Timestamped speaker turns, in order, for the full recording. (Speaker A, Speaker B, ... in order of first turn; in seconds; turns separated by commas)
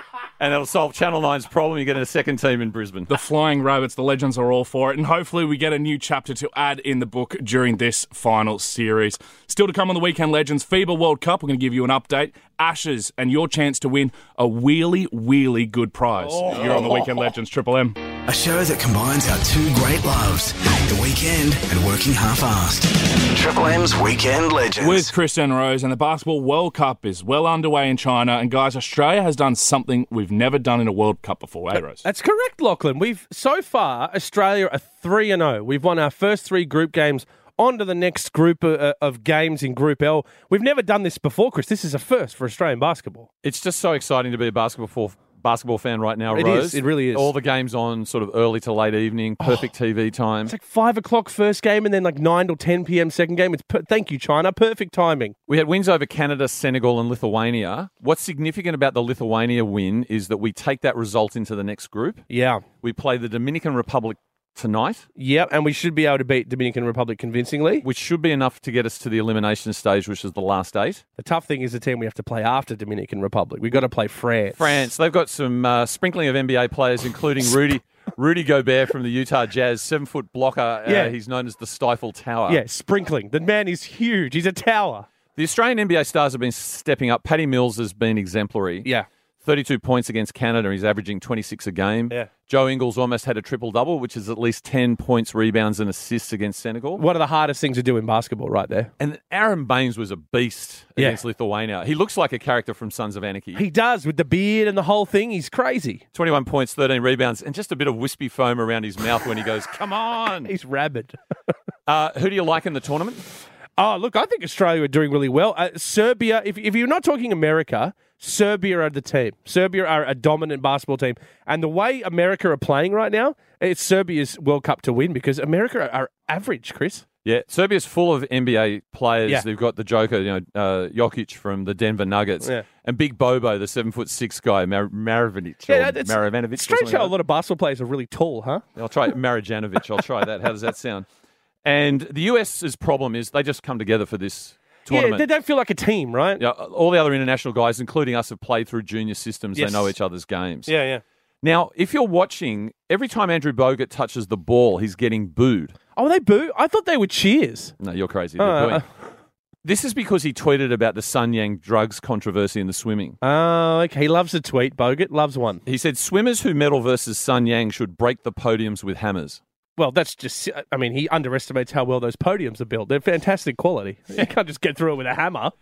Speaker A: 0.4-3.1, Speaker B: 3.1-18.0, Speaker C: 16.2-17.1, Speaker D: 18.3-25.1, Speaker B: 24.8-32.0, Speaker C: 32.0-43.3, Speaker A: 43.4-50.5, Speaker C: 46.3-47.3, Speaker C: 50.5-55.4, Speaker A: 55.5-62.2, Speaker C: 62.3-62.6, Speaker A: 62.8-65.1, Speaker C: 65.2-67.8, Speaker A: 67.8-71.0, Speaker C: 71.2-74.8, Speaker A: 74.5-82.6, Speaker C: 80.9-81.1, Speaker C: 82.5-85.1, Speaker A: 85.4-88.9, Speaker A: 89.4-97.0, Speaker C: 97.0-98.9, Speaker A: 99.0-103.6, Speaker C: 103.6-106.0, Speaker A: 106.2-110.5, Speaker C: 110.5-111.2, Speaker A: 111.9-113.2, Speaker C: 113.8-127.0, Speaker A: 127.2-137.2, Speaker C: 135.7-138.6, Speaker A: 138.8-141.1, Speaker A: 141.6-145.2, Speaker C: 144.9-146.4, Speaker A: 146.4-150.7, Speaker C: 149.6-149.9, Speaker C: 150.7-151.0, Speaker A: 151.4-155.8, Speaker C: 156.0-157.7, Speaker A: 157.8-158.8, Speaker C: 158.4-158.9, Speaker A: 159.6-163.2, Speaker C: 163.2-165.6, Speaker A: 165.7-169.4, Speaker C: 169.8-175.5